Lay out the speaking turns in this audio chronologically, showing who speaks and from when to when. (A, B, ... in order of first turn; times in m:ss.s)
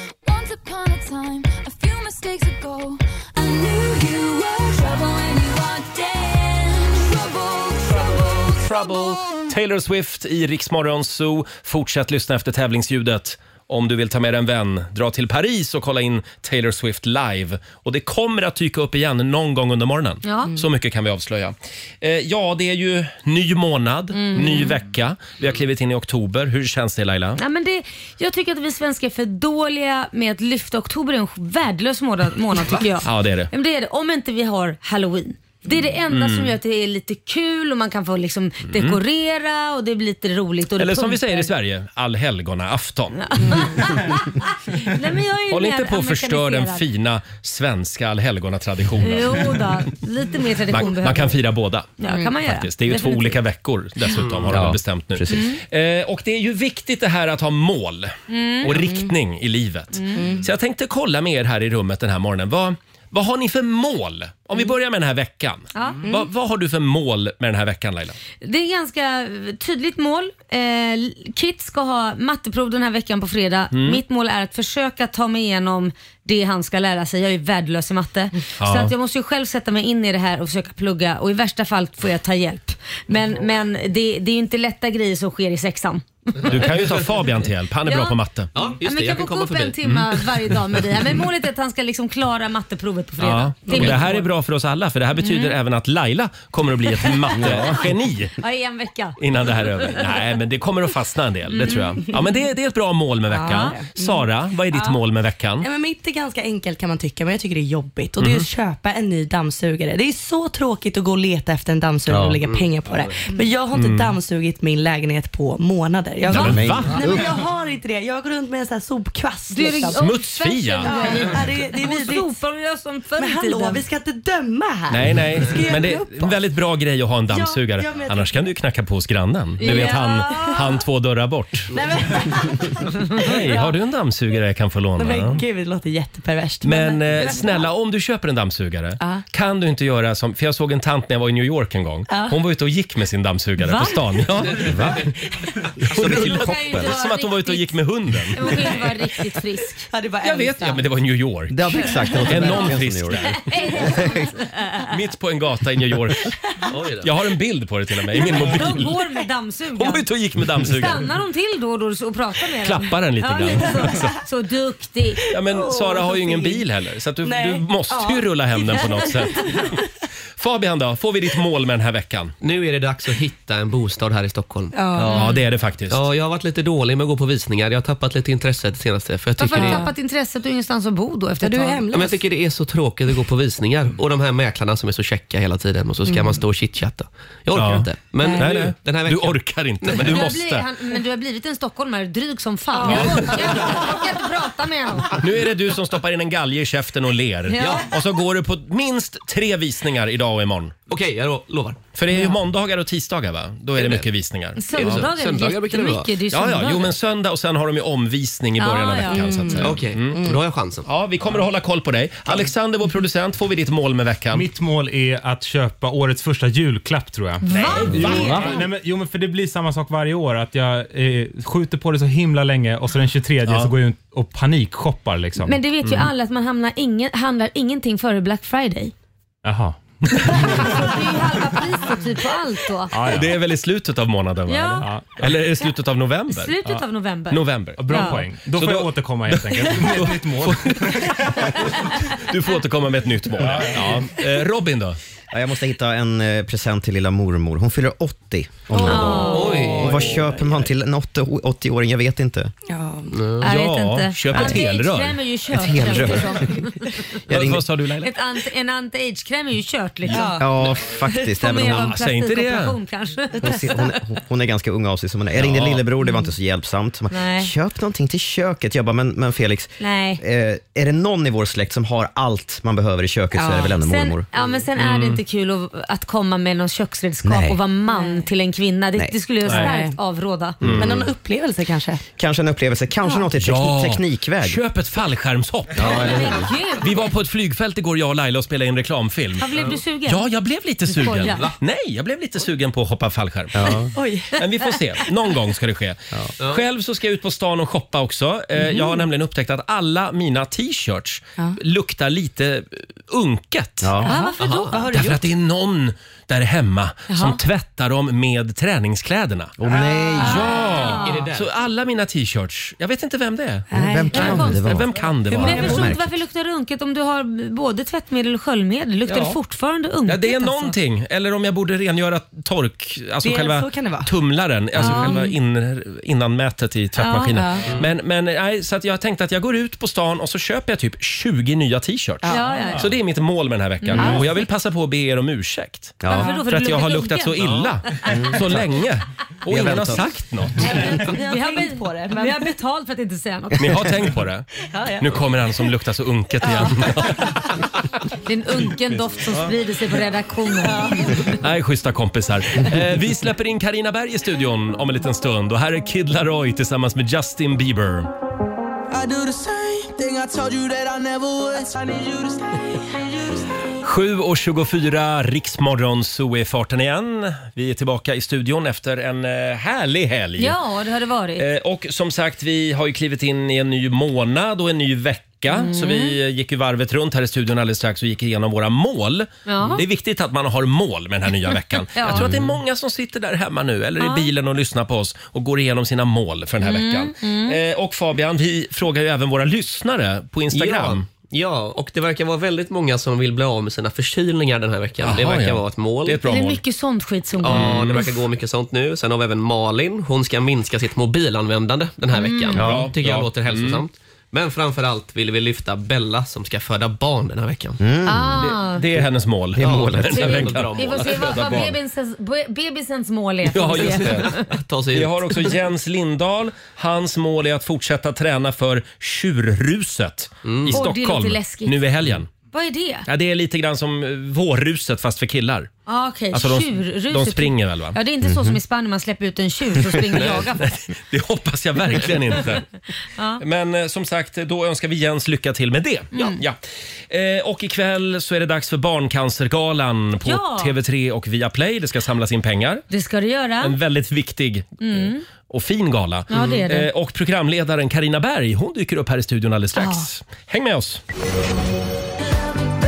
0:00.2-0:09.3 A
0:08.6-0:27.4 B
0:20.2-0:20.6 C
0:24.2-0:24.8 C
0:27.4-0:41.5 C
0:32.7-0:33.5 B
0:36.1-0:36.6 B
0:38.7-0:39.0 B
0:40.8-0:43.8 B
0:43.2-0:46.8 C
0:45.5-0:49.8 B
0:49.0-0:51.4 C
0:50.7-0:51.9 B
0:52.0-0:53.4 C
0:52.0-0:52.4 D
0:52.4-1:08.2 B
0:54.5-0:55.4 E
0:58.3-0:59.0 C
0:59.9-1:00.2 C
1:00.2-1:00.5 D
1:05.7-1:06.1 C
1:06.0-1:06.3 D
1:08.4-1:26.5 C
1:13.7-1:14.0 B
1:18.6-1:18.9 B
1:26.5-1:28.5 B
1:26.5-1:27.1 F
1:27.9-1:28.2 C
1:28.6-1:29.8 F
1:28.8-1:34.3 C
1:33.2-1:38.4 B
1:35.2-1:35.5 C
1:37.3-1:37.7 C
1:38.4-1:39.2 C
1:39.2-1:45.7 B
1:39.8-1:40.1 C
1:41.5-1:42.0 C
1:43.3-1:44.9 D
1:43.4-1:43.8 C
1:45.6-2:00.1 D
1:48.2-1:48.5 B
1:52.1-1:52.4 E
1:52.4-1:53.1 F
1:53.7-1:54.1 B
1:56.3-1:57.2 B
1:56.3-1:57.3 E
1:56.3-1:56.6 C
1:59.5-2:03.8 C
1:59.8-2:01.0 B
2:00.8-2:02.3 D
2:03.2-2:06.4 D
2:04.9-2:11.7 B
2:07.3-2:08.5 D
2:09.6-2:10.6 D
2:09.6-2:10.6 C
2:11.7-2:13.7 D
2:13.2-2:15.4 B
2:15.0-2:17.7 D
2:16.6-2:25.1 B
2:22.1-2:22.4 D
2:23.6-2:24.0 D
2:24.6-2:25.0 E
2:25.9-2:28.8 B
2:25.9-2:26.9 E
2:26.1-2:27.8 C
2:28.3-2:29.9 C
2:29.9-2:30.9 D
2:30.2-2:33.4 B
2:31.5-2:34.2 E
2:31.7-2:32.6 D
2:32.2-2:34.8 C
2:34.9-2:36.3 B
2:36.7-2:37.1 F
2:37.0-2:39.0 B
2:38.3-2:40.0 C
2:39.8-2:41.1 B
2:40.6-2:45.2 C
2:42.6-2:44.2 B
2:43.5-2:44.0 D
2:45.3-2:46.6 D
2:45.3-2:49.8 B
2:47.2-2:49.7 D
2:50.4-2:52.4 B
2:52.4-2:55.3 F
2:54.7-2:55.3 D
2:55.0-2:56.0 B
2:55.1-2:55.4 C
2:55.9-2:59.9 F
2:59.4-3:01.8 C
2:59.5-2:59.9 D
3:01.4-3:02.2 D
3:01.9-3:10.2 F
3:06.0-3:06.4 D
3:07.5-3:10.7 B
3:08.2-3:08.5 D
3:10.0-3:15.2 C
3:12.8-3:13.1 D
3:12.9-3:13.8 B
3:15.2-3:20.8 B
3:17.5-3:17.9 C
3:20.9-3:21.8 F
3:22.0-3:25.1 B
3:23.8-3:24.1 F
3:24.6-3:26.9 C
3:24.7-3:26.2 F
3:26.3-3:30.2 B
3:28.6-3:29.6 C
3:29.1-3:30.4 D
3:29.6-3:30.9 F
3:30.8-3:34.5 B
3:34.3-3:45.6 G
3:37.4-3:38.6 C
3:37.5-3:38.6 B
3:43.5-3:43.7 B
3:45.4-3:48.9 C
3:49.4-3:50.6 G
3:50.3-3:53.0 C
3:52.9-3:53.3 G
3:53.1-3:56.6 B
3:54.5-3:54.9 C
3:54.8-3:55.4 G
3:56.3-3:58.2 C
3:57.3-4:05.0 B
3:57.8-4:01.4 G
4:03.4-4:03.8 G
4:05.3-4:12.5 E
4:08.7-4:10.4 D
4:08.8-4:09.7 C
4:09.3-4:10.2 F
4:12.7-4:13.2 D
4:13.1-4:13.4 F
4:13.4-4:15.2 B
4:13.4-4:16.9 C
4:15.5-4:16.5 E
4:17.3-4:18.1 B
4:17.3-4:17.6 E
4:18.0-4:20.4 C
4:20.1-4:20.6 D
4:20.4-4:21.9 E
4:21.4-4:23.7 C
4:21.6-4:22.8 B
4:23.4-4:34.3 E
4:25.4-4:25.8 B
4:27.1-4:27.5 C
4:29.8-4:30.2 C
4:33.4-4:33.8 D
4:33.8-4:40.6 C
4:34.8-4:35.2 B
4:37.2-4:37.6 E
4:37.9-4:38.3 D
4:39.4-4:39.7 B
4:39.4-4:40.0 D
4:40.6-4:41.1 B
4:40.6-4:40.9 E
4:40.8-4:42.0 D
4:42.2-4:44.6 E
4:43.0-4:43.3 D
4:43.4-5:04.0 B
4:45.8-4:46.4 E
4:45.8-4:47.1 C
4:49.4-4:50.3 C
4:50.9-4:51.4 C
4:53.6-4:53.9 E
4:53.9-4:54.4 D
4:58.7-4:59.0 D
5:03.8-5:04.1 E
5:04.0-5:05.3 D
5:04.0-5:04.9 C
5:04.4-5:04.7 F
5:04.7-5:09.6 B
5:07.1-5:07.4 C
5:09.6-5:10.5 E
5:10.2-5:11.2 C
5:10.2-5:15.8 B
5:10.8-5:11.5 F
5:13.7-5:14.6 D
5:13.8-5:16.1 E
5:14.1-5:14.7 C
5:15.3-5:15.9 D
5:15.4-5:20.7 C
5:20.1-5:41.0 B
5:23.2-5:24.1 D
5:24.7-5:25.3 D
5:24.8-5:25.2 C
5:27.0-5:27.5 C
5:27.3-5:27.7 D
5:32.2-5:32.8 D
5:32.3-5:32.9 C
5:33.8-5:34.2 C
5:34.0-5:34.4 D
5:36.0-5:36.3 E
5:36.1-5:37.4 C
5:38.1-5:38.6 E
5:39.5-5:40.0 E
5:40.6-5:42.6 D
5:40.6-5:43.8 C
5:43.6-5:47.4 B
5:44.7-5:45.2 D
5:46.4-5:47.3 D
5:48.2-5:51.1 C
5:50.6-5:51.3 D
5:51.3-5:58.1 B
5:58.9-6:02.5 H
6:03.8-6:10.6 B
6:10.4-6:11.5 C
6:11.4-6:31.1 B
6:15.5-6:16.2 C
6:19.5-6:19.8 C
6:22.0-6:22.3 C
6:24.0-6:24.3 C
6:26.6-6:27.6 C
6:30.5-6:36.3 F
6:35.0-6:36.6 B
6:36.3-6:38.0 C
6:37.4-6:47.8 F
6:37.4-6:38.2 B
6:42.1-6:42.6 C
6:42.6-6:43.8 B
6:42.6-6:42.9 E
6:47.8-6:48.5 E
6:48.0-6:48.8 C
6:48.4-6:51.8 B
6:49.6-6:50.6 E
6:49.6-6:51.7 F
6:50.1-6:54.4 C
6:53.5-6:54.4 B
6:53.6-6:55.6 F
6:54.9-7:02.3 B
7:00.4-7:00.8 F
7:00.7-7:01.8 C
7:02.5-7:03.1 C
7:03.1-7:05.7 B
7:05.9-7:10.8 C
7:06.3-7:08.0 B
7:08.2-7:08.6 E
7:10.2-7:12.6 B
7:13.2-7:13.4 C
7:13.4-7:16.6 B
7:16.1-7:16.4 C
7:17.1-7:22.8 B
7:20.2-7:20.7 C
7:22.9-7:23.8 C
7:23.6-7:31.0 B
7:24.8-7:25.2 C
7:26.3-7:26.9 C
7:29.8-7:30.1 C